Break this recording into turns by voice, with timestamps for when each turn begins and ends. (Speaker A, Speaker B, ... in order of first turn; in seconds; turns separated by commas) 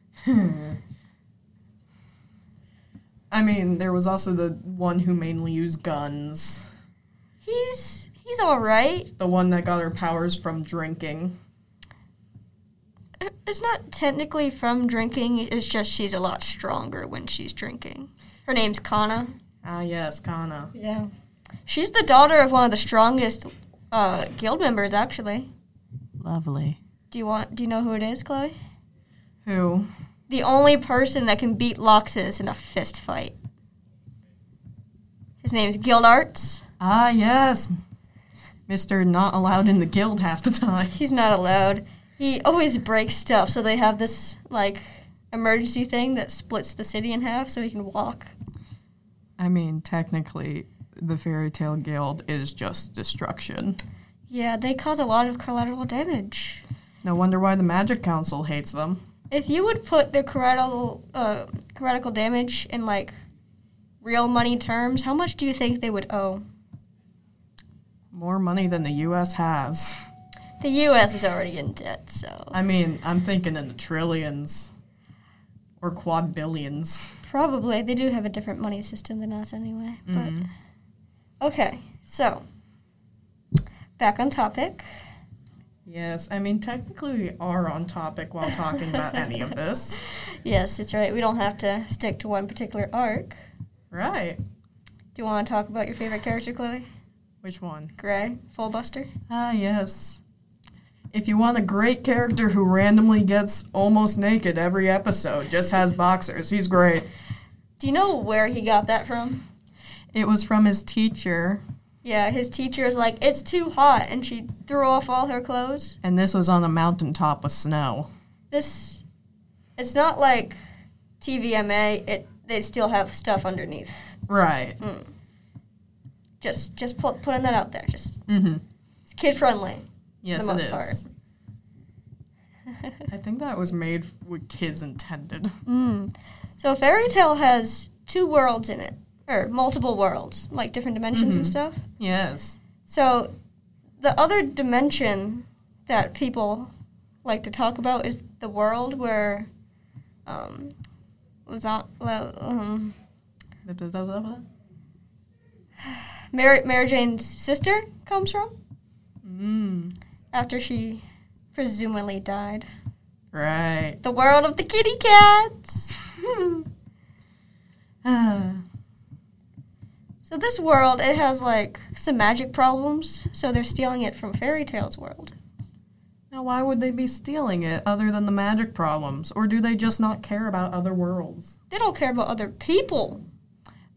Speaker A: 0.2-0.8, Speaker A: 3.3-6.6, Speaker B: 7.4-9.1, Speaker A: 9.2-11.3, Speaker B: 13.2-19.3, Speaker A: 19.6-20.7, Speaker B: 20.7-21.1, Speaker B: 21.7-25.5, Speaker A: 26.2-26.8, Speaker B: 27.1-28.5, Speaker A: 29.4-29.9, Speaker B: 30.3-33.3, Speaker B: 35.4-36.6, Speaker A: 36.8-37.7, Speaker A: 38.7-41.0, Speaker B: 40.9-48.3, Speaker A: 49.4-53.8, Speaker B: 54.3-56.6, Speaker A: 57.0-59.0, Speaker B: 59.3-63.1, Speaker B: 64.0-66.4, Speaker A: 68.1-70.0, Speaker B: 70.6-72.5, Speaker A: 72.5-74.7, Speaker A: 75.8-77.1, Speaker B: 77.2-80.5, Speaker A: 80.1-80.5, Speaker B: 81.4-82.4, Speaker B: 84.0-84.8, Speaker A: 85.8-90.0, Speaker B: 90.0-93.3, Speaker A: 93.9-94.4, Speaker B: 95.1-96.8, Speaker A: 97.4-97.9, Speaker B: 98.0-99.1, Speaker A: 99.3-100.2, Speaker A: 101.1-107.1, Speaker B: 107.8-109.4, Speaker A: 110.1-111.6, Speaker B: 112.0-116.0, Speaker A: 116.0-118.1, Speaker B: 118.5-119.0, Speaker B: 119.8-120.5, Speaker B: 121.2-123.9, Speaker A: 124.3-124.8, Speaker B: 124.8-125.1, Speaker B: 126.4-128.2, Speaker A: 128.3-128.6, Speaker B: 129.1-131.0, Speaker A: 130.2-131.0, Speaker A: 133.1-135.6, Speaker B: 135.7-141.8, Speaker A: 141.1-142.6, Speaker B: 142.8-143.3, Speaker B: 144.0-146.7, Speaker B: 147.2-149.5, Speaker B: 150.2-150.7, Speaker B: 151.4-152.9, Speaker A: 153.7-154.4, Speaker B: 155.8-158.5, Speaker A: 159.2-159.9, Speaker B: 160.3-161.0, Speaker B: 161.5-162.7, Speaker A: 163.3-164.0, Speaker B: 164.0-166.0, Speaker A: 166.2-166.7, Speaker A: 168.0-168.6, Speaker B: 170.2-175.3, Speaker A: 176.3-181.6, Speaker B: 181.7-183.2